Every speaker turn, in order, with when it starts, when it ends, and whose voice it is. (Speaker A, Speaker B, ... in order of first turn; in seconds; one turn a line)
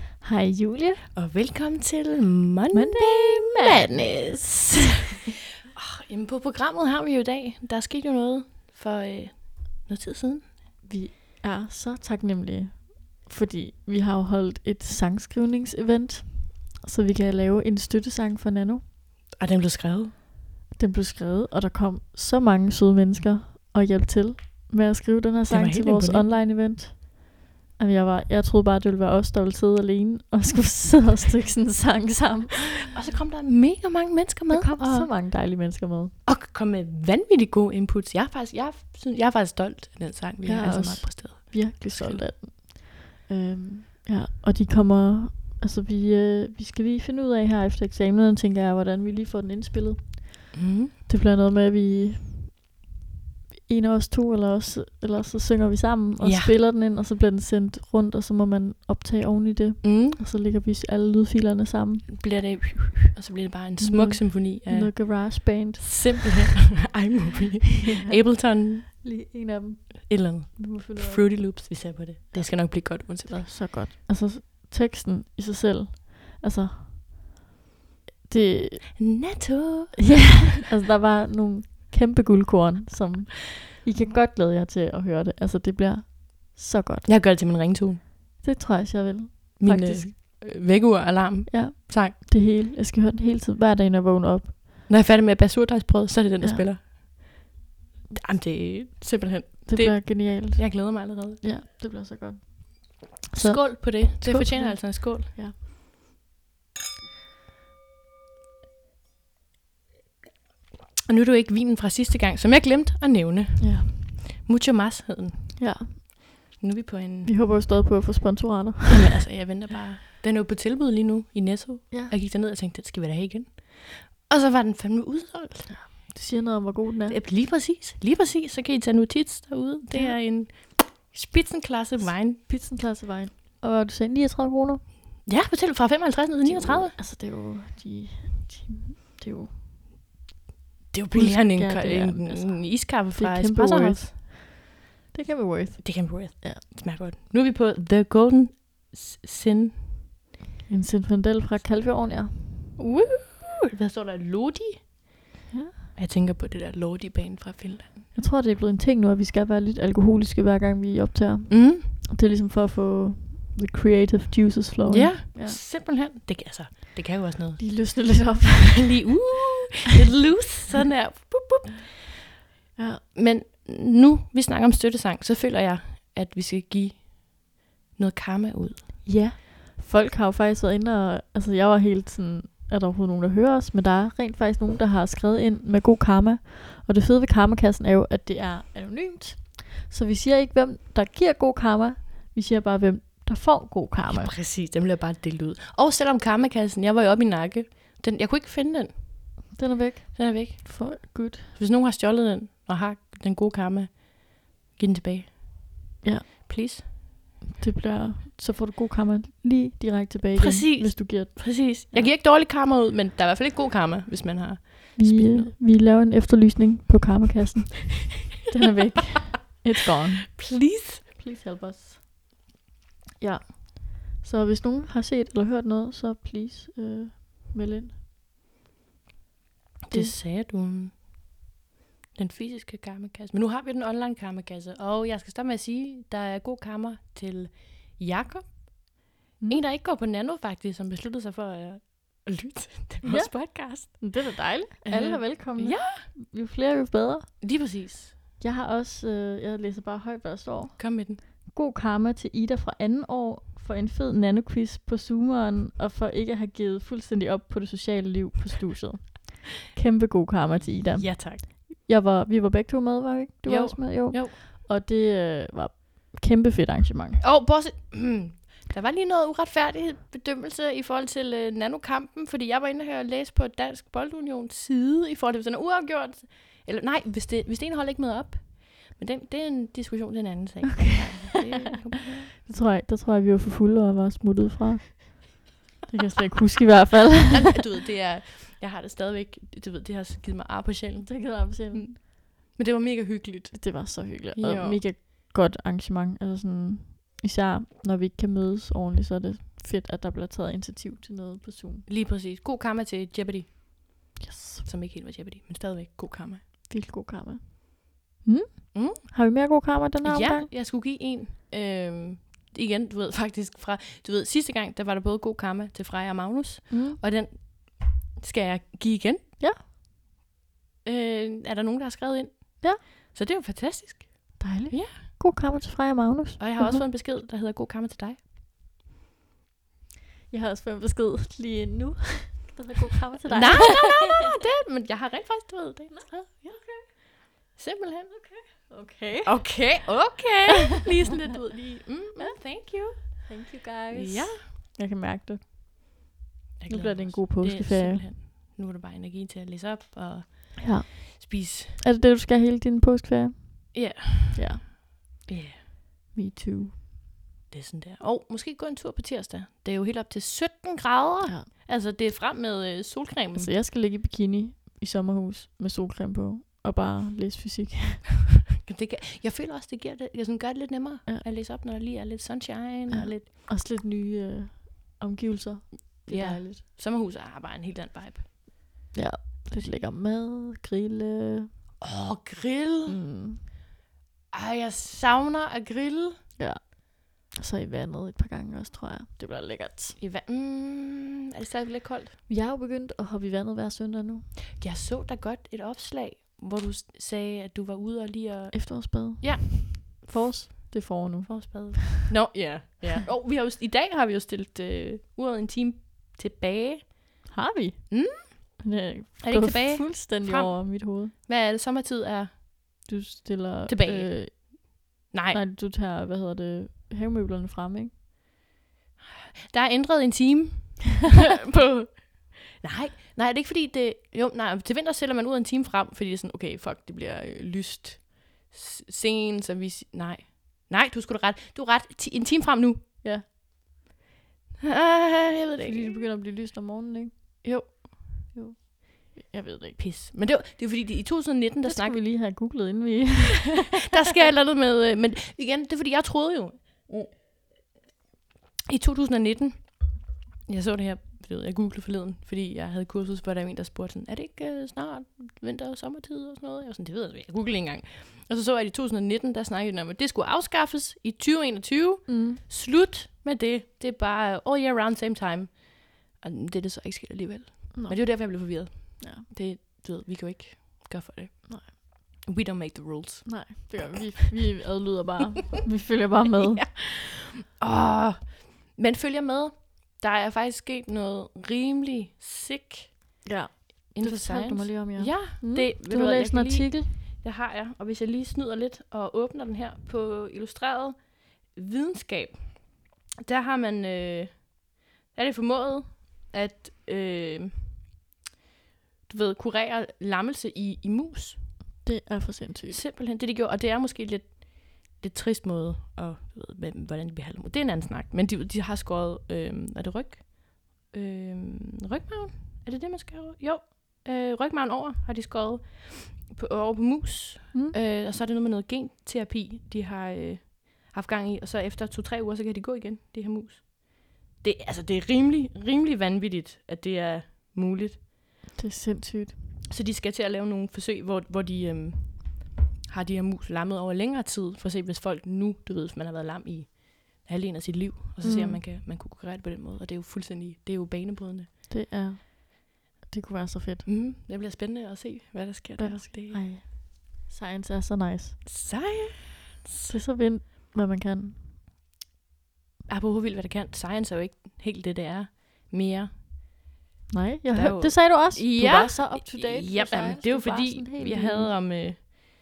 Speaker A: 0.2-1.1
Speaker B: 1.1-5.2
Speaker A: 2.7-4.9
Speaker B: 5.8-10.5
Speaker A: 10.8-18.8
Speaker B: 19.4-20.1
Speaker A: 20.8-32.9
Speaker B: 25.4-26.4
Speaker B: 32.9-35.1
Speaker A: 34.5-36.1
Speaker B: 36.3-42.3
Speaker A: 40.5-52.6
Speaker B: 50.5-50.9
Speaker A: 53.7-62.2
Speaker B: 56.2-56.5
Speaker B: 59.8-60.2
Speaker B: 62.1-69.0
Speaker A: 63.8-66.4
Speaker A: 67.9-77.3
Speaker B: 70.1-73.5
Speaker A: 78.3-79.0
Speaker B: 79.0-80.5
Speaker A: 80.0-87.1
Speaker B: 87.0-88.0
Speaker A: 88.4-90.2
Speaker B: 89.6-92.2
Speaker A: 91.5-94.6
Speaker B: 94.9-97.4
Speaker A: 96.4-96.7
Speaker B: 98.1-101.5
Speaker A: 99.7-105.6
Speaker B: 103.3-105.3
Speaker B: 111.1-117.3
Speaker A: 113.6-114.1
Speaker A: 115.6-116.0
Speaker A: 117.2-119.2
Speaker B: 118.9-125.9
Speaker A: 125.7-127.2
Speaker B: 127.1-132.5
Speaker A: 129.9-130.2
Speaker A: 132.0-134.9
Speaker B: 135.2-137.0
Speaker A: 136.4-139.6
Speaker B: 140.9-144.1
Speaker A: 141.1-144.5
Speaker A: 145.1-146.6
Speaker B: 145.8-150.0
Speaker A: 150.7-152.7
Speaker B: 152.8-155.1
Speaker A: 155.5-155.8
Speaker B: 155.9-158.0
Speaker A: 158.2-165.6
Speaker B: 161.5-161.9
Speaker B: 164.9-172.1
Speaker A: 167.6-169.2
Speaker A: 172.8-173.0
Speaker B: 173.1-179.1
Speaker A: 179.0-194.4
Speaker B: 194.1-199.3
Speaker A: 199.5-201.5
Speaker B: 200.2-205.4
Speaker B: 206.5-206.8
Speaker A: 207.5-212.1
Speaker B: 210.4-215.5
Speaker A: 215.0-222.1
Speaker B: 220.3-221.1
Speaker A: 223.2-228.0
Speaker B: 229.9-231.1
Speaker A: 229.9-230.2
Speaker B: 232.2-238.9
Speaker B: 239.5-244.2
Speaker A: 243.0-247.4
Speaker B: 244.8-246.1
Speaker B: 247.4-248.2
Speaker A: 248.4-267.2
Speaker B: 250.8-251.2
Speaker B: 260.9-261.4
Speaker B: 263.5-264.4
Speaker B: 267.2-282.3
Speaker A: 282.4-287.6
Speaker B: 287.3-294.8
Speaker A: 291.0-292.0
Speaker A: 293.5-301.9
Speaker B: 301.9-306.4
Speaker A: 304.2-304.7
Speaker A: 306.7-310.5
Speaker B: 308.7-309.1
Speaker B: 310.0-319.2
Speaker A: 316.7-317.0
Speaker B: 320.9-325.0
Speaker A: 324.4-326.9
Speaker B: 326.4-328.2
Speaker A: 330.3-334.3
Speaker B: 333.3-338.3
Speaker A: 335.9-336.9
Speaker A: 338.1-339.8
Speaker B: 339.2-344.4
Speaker A: 342.2-345.4
Speaker B: 346.6-351.8
Speaker A: 346.7-348.1
Speaker A: 350.6-354.7
Speaker B: 353.7-355.6
Speaker A: 356.1-356.8
Speaker B: 357.5-363.5
Speaker A: 363.3-368.1
Speaker B: 368.6-373.3
Speaker A: 372.9-376.6
Speaker B: 376.1-378.3
Speaker A: 378.9-381.5
Speaker B: 381.8-383.0
Speaker A: 382.9-383.5
Speaker B: 384.3-386.2
Speaker A: 386.4-390.0
Speaker B: 390.0-392.2
Speaker A: 392.3-394.3
Speaker B: 394.6-400.3
Speaker A: 398.5-401.9
Speaker B: 401.3-407.1
Speaker A: 407.3-411.1
Speaker B: 407.9-408.6
Speaker B: 409.2-412.4
Speaker A: 412.9-414.8
Speaker B: 413.7-414.5
Speaker B: 415.1-415.4
Speaker A: 415.3-417.9
Speaker B: 419.5-433.0
Speaker B: 434.6-436.0
Speaker A: 435.6-439.8
Speaker B: 439.8-442.0
Speaker A: 441.6-443.9
Speaker B: 443.7-447.2
Speaker B: 448.7-473.9
Speaker A: 462.1-462.4
Speaker A: 467.7-469.3
Speaker A: 471.5-471.7
Speaker A: 473.3-476.7
Speaker B: 476.5-483.0
Speaker A: 483.2-486.9
Speaker B: 483.9-497.9
Speaker B: 499.1-501.6
Speaker A: 501.8-502.8
Speaker B: 502.7-528.0
Speaker A: 528.5-529.4
Speaker B: 529.7-541.5
Speaker A: 538.2-538.6
Speaker A: 541.7-543.9
Speaker B: 543.9-546.5
Speaker A: 545.8-548.5
Speaker B: 548.5-549.9
Speaker A: 549.9-551.4
Speaker B: 552.9-556.2
Speaker A: 557.1-561.6
Speaker B: 557.5-562.0